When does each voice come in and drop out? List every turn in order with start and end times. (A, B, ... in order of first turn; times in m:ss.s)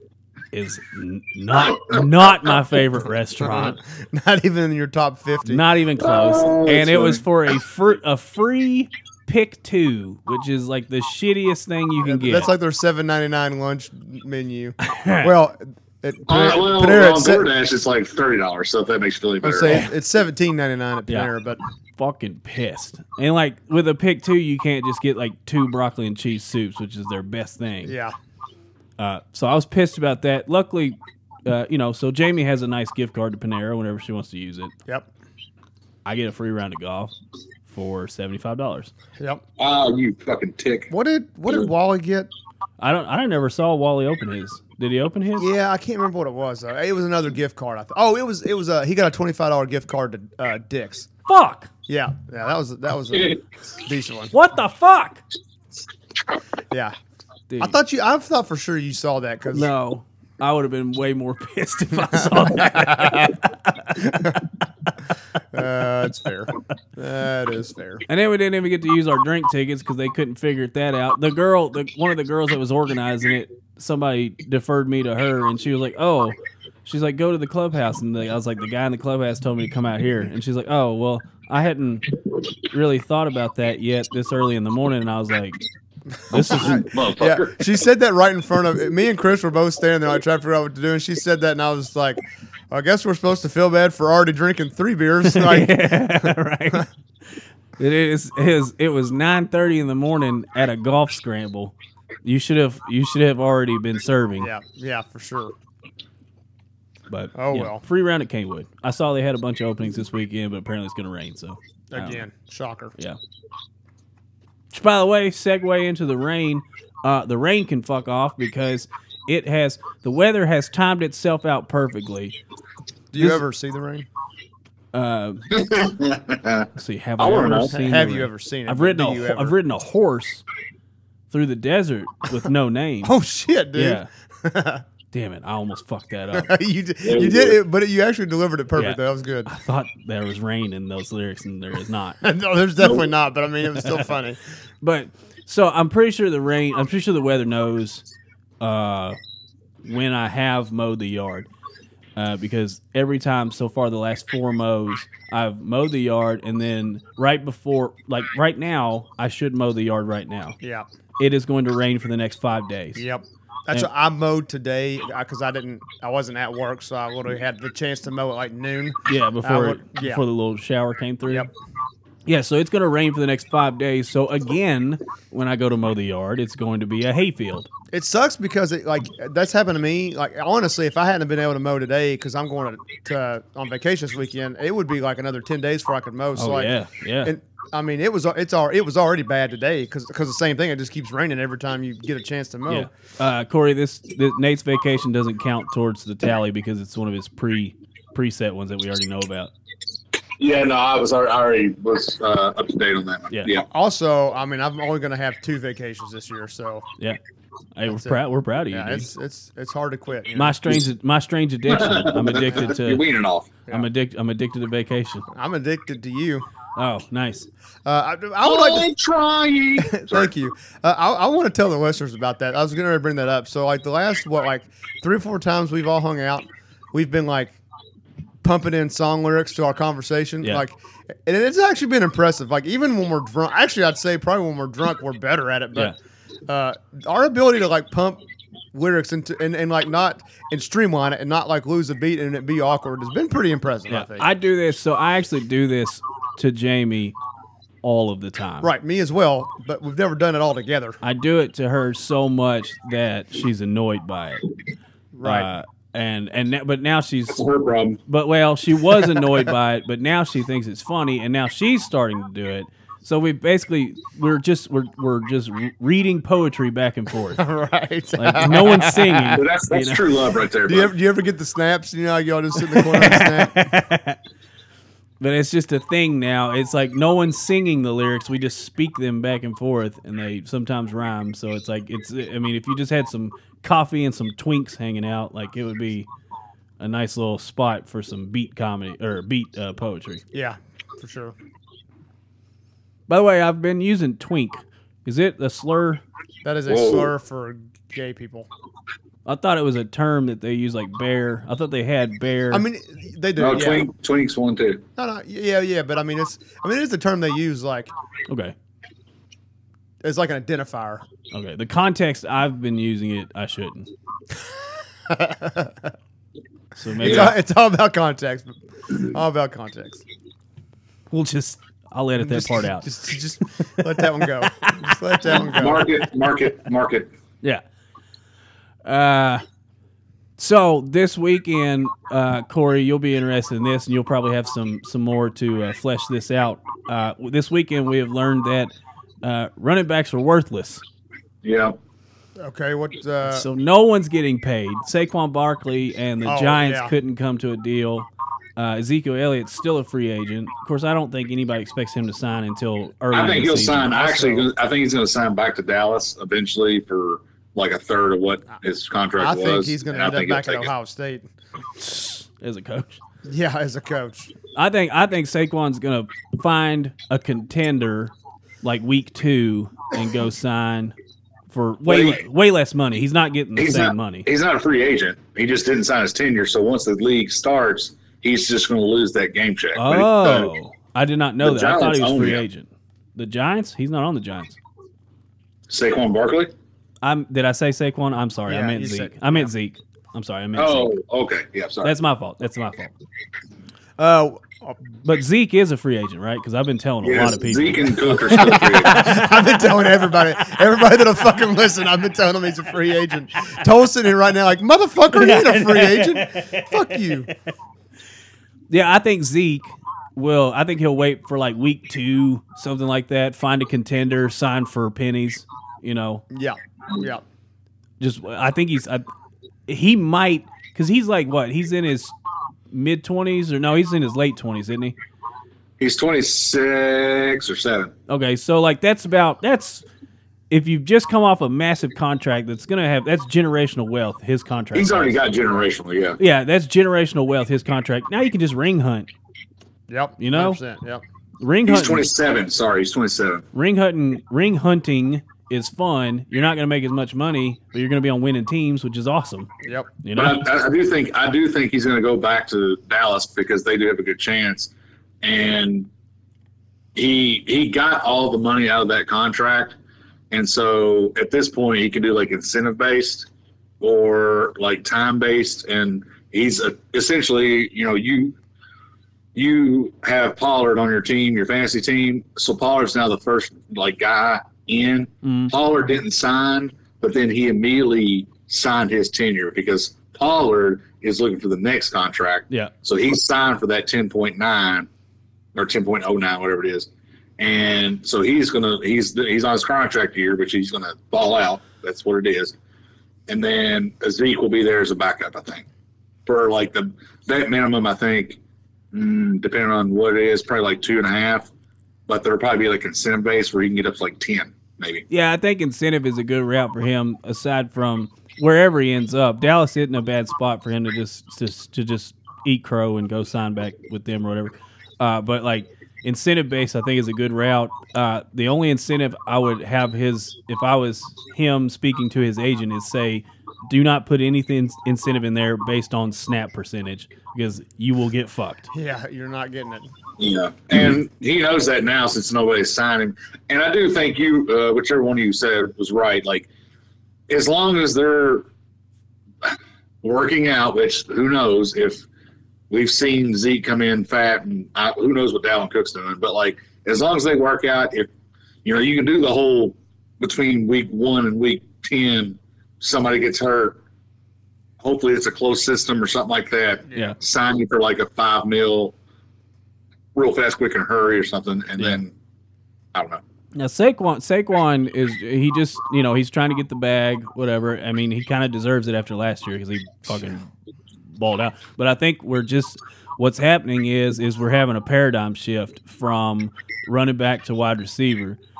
0:00.5-0:03.8 A
0:03.4-0:05.6 B
0:05.4-0:12.5 A
0:06.0-0:07.2 C
0:12.0-0:17.5 B
0:14.8-0:15.3 A
0:16.3-0:19.9 C
0:19.4-0:21.6 B
0:22.0-0:27.9 A
0:27.8-0:28.1 B
0:29.0-0:34.7 A
0:36.0-0:37.1 A
0:37.7-0:38.9 A
0:39.2-0:39.4 B
0:39.6-0:40.9 C
0:40.9-0:42.3 B
0:42.8-0:45.5 A
0:45.4-0:51.1 B
0:51.3-0:51.7 A
0:51.9-0:54.3 B
0:54.3-0:55.2 A
0:56.7-0:57.0 B
0:57.5-0:57.7 A
0:57.6-0:59.7 B
0:59.5-1:04.2 A
1:02.1-1:03.3 B
1:04.0-1:04.4 B
1:05.5-1:08.0 B
1:08.1-1:22.1 A
1:22.6-1:25.6 A
1:26.3-1:26.9 A
1:26.4-1:27.7 C
1:26.5-1:32.2 B
1:32.7-1:36.8 B
1:35.2-1:36.9 A
1:37.8-1:44.5 A
1:44.4-1:45.5 B
1:47.1-1:52.2 A
1:47.3-1:47.8 B
1:51.9-1:52.9 B
1:54.7-2:02.4 A
2:03.1-2:04.1 B
2:03.2-2:03.4 A
2:04.9-2:05.6 A
2:05.5-2:06.7 C
2:06.7-2:10.4 A
2:07.2-2:07.7 C
2:07.7-2:09.6 B
2:11.3-2:13.1 A
2:13.0-2:14.8 B
2:13.7-2:14.1 A
2:15.1-2:16.5 A
2:16.3-2:19.5 B
2:17.0-2:17.6 C
2:18.7-2:22.2 A
2:22.2-2:24.4 B
2:23.8-2:24.0 A
2:24.8-2:28.0 A
2:28.6-2:29.2 A
2:29.8-2:31.5 A
2:32.2-2:40.6 A
2:40.6-2:40.9 B
2:41.2-2:43.0 A
2:43.0-2:50.2 B
2:49.0-2:51.5 A
2:52.3-2:57.7 A
2:57.9-3:12.9 B
3:06.3-3:07.3 A
3:12.7-3:19.5 A
3:20.4-3:23.7 C
3:23.7-3:26.9 B
3:27.8-3:29.1 A
3:27.9-3:28.2 B
3:28.7-3:30.7 B
3:30.3-3:33.0 A
3:31.7-3:33.5 C
3:32.3-3:32.7 B
3:33.7-3:35.3 A
3:35.3-3:36.4 B
3:36.8-3:37.5 A
3:37.8-3:38.9 B
3:38.4-3:40.3 C
3:39.8-3:47.6 B
3:48.4-3:55.9 B
3:56.5-3:58.2 B
3:58.7-4:04.3 B
4:03.9-4:07.2 A
4:07.8-4:08.7 A
4:08.6-4:11.0 B
4:11.0-4:14.4 A
4:15.1-4:15.5 B
4:15.2-4:17.4 A
4:17.3-4:18.0 C
4:18.1-4:27.4 A
4:19.0-4:19.3 B
4:27.4-4:29.4 B
4:28.2-4:30.0 A
4:29.3-4:30.9 C
4:30.7-4:33.7 B
4:32.7-4:34.2 A
4:35.2-4:46.1 A
4:46.8-4:50.2 A
4:50.3-4:51.3 B
4:53.1-4:56.0 A
4:56.4-4:58.5 B
4:56.7-4:57.1 C
4:59.2-5:02.6 A
5:02.5-5:03.9 B
5:03.4-5:04.8 C
5:05.0-5:07.9 B
5:08.3-5:08.5 A
5:10.0-5:11.1 B
5:11.3-5:13.9 A
5:15.0-5:15.9 B
5:16.8-5:17.3 A
5:17.0-5:20.0 B
5:17.0-5:17.3 C
5:21.1-5:22.9 A
5:22.2-5:25.8 B
5:25.3-5:27.1 C
5:28.8-5:29.4 A
5:30.4-5:40.8 A
5:41.4-5:41.8 C
5:42.4-5:43.5 B
5:43.2-5:54.1 A
5:46.2-5:46.9 B
5:53.1-6:00.7 C
5:53.9-5:54.5 B
5:59.2-6:01.3 B
6:01.8-6:03.0 A
6:03.2-6:04.3 B
6:04.5-6:10.9 A
6:11.5-6:14.3 A
6:11.9-6:12.2 C
6:13.6-6:20.5 C
6:19.7-6:24.6 A
6:21.4-6:22.4 C
6:25.7-6:26.5 C
6:27.0-6:30.9 A
6:28.5-6:29.5 B
6:30.6-6:31.9 C
6:31.8-6:32.9 A
6:34.0-6:34.8 B
6:35.0-6:39.5 A
6:37.0-6:39.0 C
6:38.3-6:47.3 B
6:45.1-6:47.3 A
6:48.7-6:56.2 A
6:56.3-6:57.2 B
6:58.0-6:59.0 A
6:59.7-7:02.1 A
7:02.7-7:04.9 A
7:05.8-7:07.9 C
7:08.1-7:09.8 A
7:10.5-7:15.2 A
7:14.7-7:16.2 C
7:16.2-7:19.1 A
7:19.9-7:21.0 B
7:20.2-7:20.6 A
7:21.4-7:22.0 A
7:21.7-7:23.4 C
7:23.5-7:29.5 A
7:29.6-7:29.9 B
7:30.0-7:30.4 A
7:30.2-7:34.7 C
7:35.2-7:35.9 C
7:36.9-7:39.8 C
7:40.3-7:43.3 C
7:43.8-7:48.3 C
7:49.3-8:04.9 C
7:55.2-7:55.5 A
8:05.5-8:12.5 C
8:13.3-8:15.6 C
8:16.2-8:18.4 C
8:18.9-8:21.5 C
8:22.1-8:25.0 C
8:25.1-8:48.7 A
8:48.7-8:49.9 B
8:50.2-8:56.5 C
8:57.3-8:58.5 C
8:59.4-9:02.0 C
9:02.7-9:08.1 C
9:08.6-9:13.8 C
9:14.8-9:18.9 C
9:20.1-9:22.1 C
9:22.9-9:23.2 C
9:23.5-9:30.5 A
9:31.2-9:38.4 A